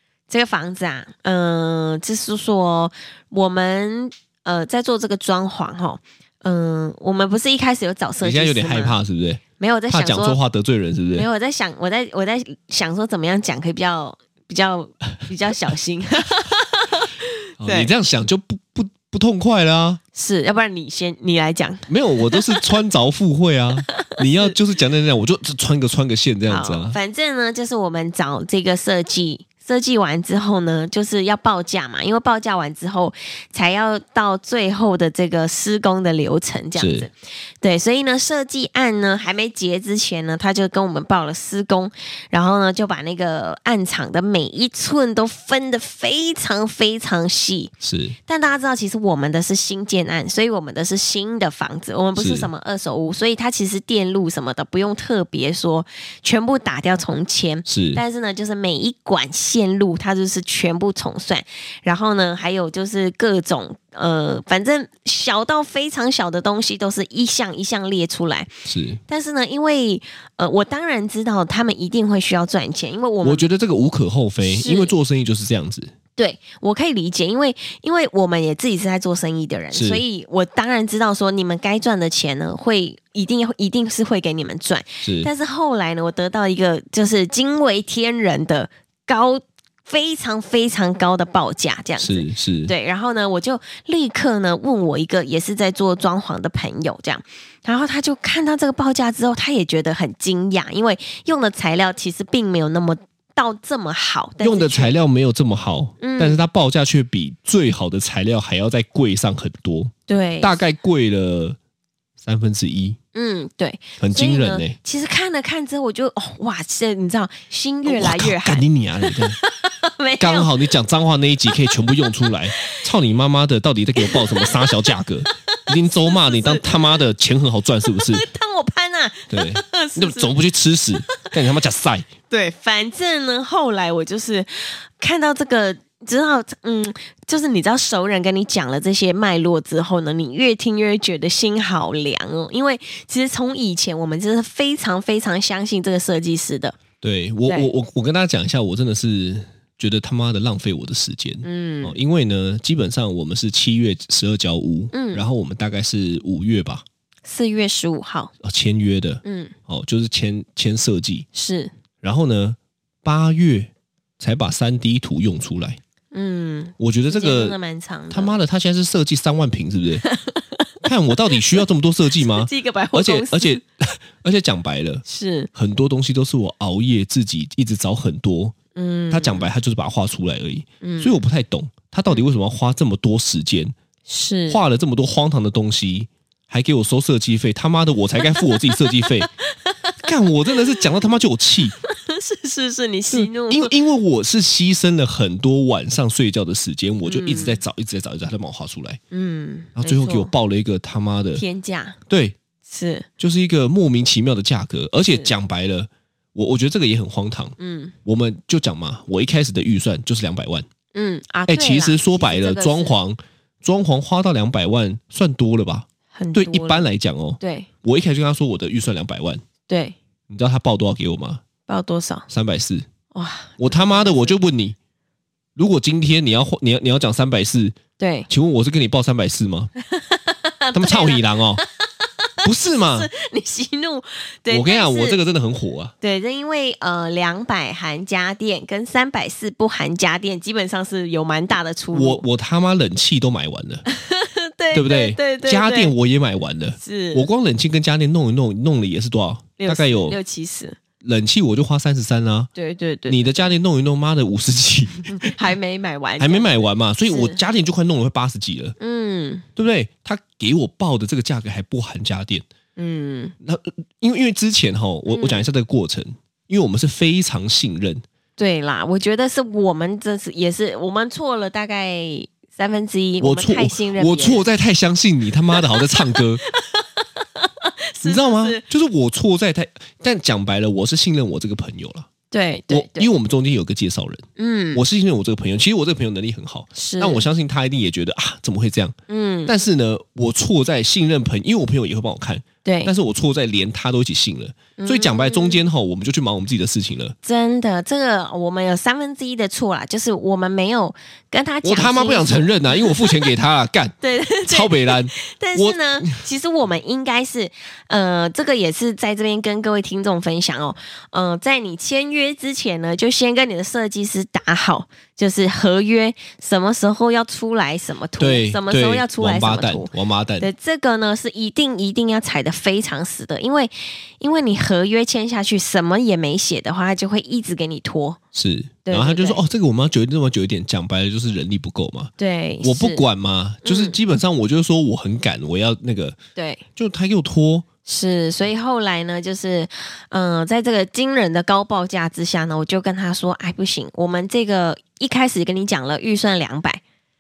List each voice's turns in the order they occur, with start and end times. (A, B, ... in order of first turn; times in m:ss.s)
0:00.3-0:09.0 A
0:08.2-0:11.3 B
0:09.6-0:10.4 A
0:11.2-0:17.9 A
0:17.6-0:20.0 B
0:20.2-0:22.6 A
0:21.9-0:27.0 B
0:23.9-0:24.5 A
0:26.5-0:47.7 A
0:36.8-0:37.1 B
0:47.8-0:48.2 B
0:48.3-1:08.5 A
0:52.2-0:52.5 B
0:57.7-0:58.0 B
1:08.7-1:09.0 B
1:09.1-1:13.4 A
1:13.2-1:15.9 B
1:14.4-1:14.9 A
1:16.2-1:45.0 A
1:19.7-1:20.0 B
1:25.0-1:25.3 B
1:32.0-1:32.7 B
1:44.4-1:51.6 B
1:46.0-1:46.4 A
1:50.1-1:50.6 A
1:52.2-1:53.0 B
1:53.1-2:00.5 A
1:54.0-1:54.8 B
1:57.9-1:59.4 B
2:00.2-2:08.3 B
2:01.9-2:02.8 A
2:04.0-2:06.9 A
2:07.9-2:10.4 A
2:09.3-2:12.1 B
2:12.3-2:26.8 A
2:27.0-2:36.8 B
2:27.5-2:27.7 A
2:31.4-2:32.0 A
2:34.9-2:35.2 A
2:37.3-2:38.3 A
2:38.4-2:41.3 B
2:39.2-2:39.6 A
2:41.3-2:41.7 A
2:42.0-2:45.8 B
2:46.1-2:48.4 A
2:46.8-2:47.6 B
2:48.1-2:50.0 B
2:50.0-2:50.7 A
2:50.8-2:58.6 B
2:51.4-2:51.6 A
2:52.2-2:53.6 A
2:55.1-2:55.5 A
2:58.8-2:59.5 A
2:59.1-3:03.8 B
3:00.8-3:01.2 A
3:04.1-3:04.6 A
3:04.5-3:09.3 B
3:08.2-3:10.8 A
3:10.0-3:11.8 B
3:11.8-3:13.7 A
3:13.1-3:19.0 B
3:17.1-3:17.6 A
3:19.1-3:20.3 A
3:19.8-3:21.4 B
3:21.4-3:22.0 A
3:22.1-3:22.4 B
3:22.7-3:23.1 A
3:23.2-3:30.7 B
3:27.6-3:27.9 A
3:30.9-3:33.0 A
3:31.5-3:39.4 B
3:36.1-3:36.9 A
3:37.4-3:37.7 A
3:39.7-3:40.0 A
3:40.3-3:41.4 B
3:41.7-3:42.3 A
3:42.3-3:42.9 B
3:43.1-3:44.4 A
3:43.6-3:44.8 B
3:45.6-3:47.8 B
3:48.0-3:48.3 A
3:48.3-3:49.7 B
3:49.9-3:55.2 A
3:50.7-3:51.6 B
3:52.4-3:53.1 B
3:54.5-3:55.9 B
3:56.0-4:02.2 A
4:01.9-4:03.9 B
4:03.9-4:05.9 A
4:04.7-4:10.2 B
4:06.8-4:07.3 A
4:09.6-4:10.8 A
4:11.0-4:12.5 B
4:12.6-4:13.5 A
4:13.1-4:15.4 B
4:15.1-4:17.4 A
4:16.2-4:18.8 B
4:18.8-4:19.4 A
4:19.6-4:22.4 B
4:22.8-4:23.4 A
4:23.4-4:28.0 B
4:25.1-4:25.4 A
4:28.4-4:34.5 A
4:33.2-4:36.4 B
4:35.5-4:38.6 A
4:38.0-4:42.1 B
4:42.3-4:43.1 A
4:42.7-4:57.2 B
4:44.4-4:44.8 A
4:46.8-4:47.3 A
4:49.1-4:49.5 A
4:52.6-4:52.9 A
4:54.8-4:55.6 A
4:57.2-5:03.3 A
5:01.6-5:06.2 B
5:04.0-5:28.2 A
5:18.2-5:20.5 B
5:28.3-5:32.1 B
5:28.8-5:29.4 A
5:32.2-5:33.0 A
5:32.6-5:36.2 B
5:33.6-5:34.0 A
5:36.4-5:36.6 A
5:36.8-5:37.7 B
5:37.9-5:46.8 A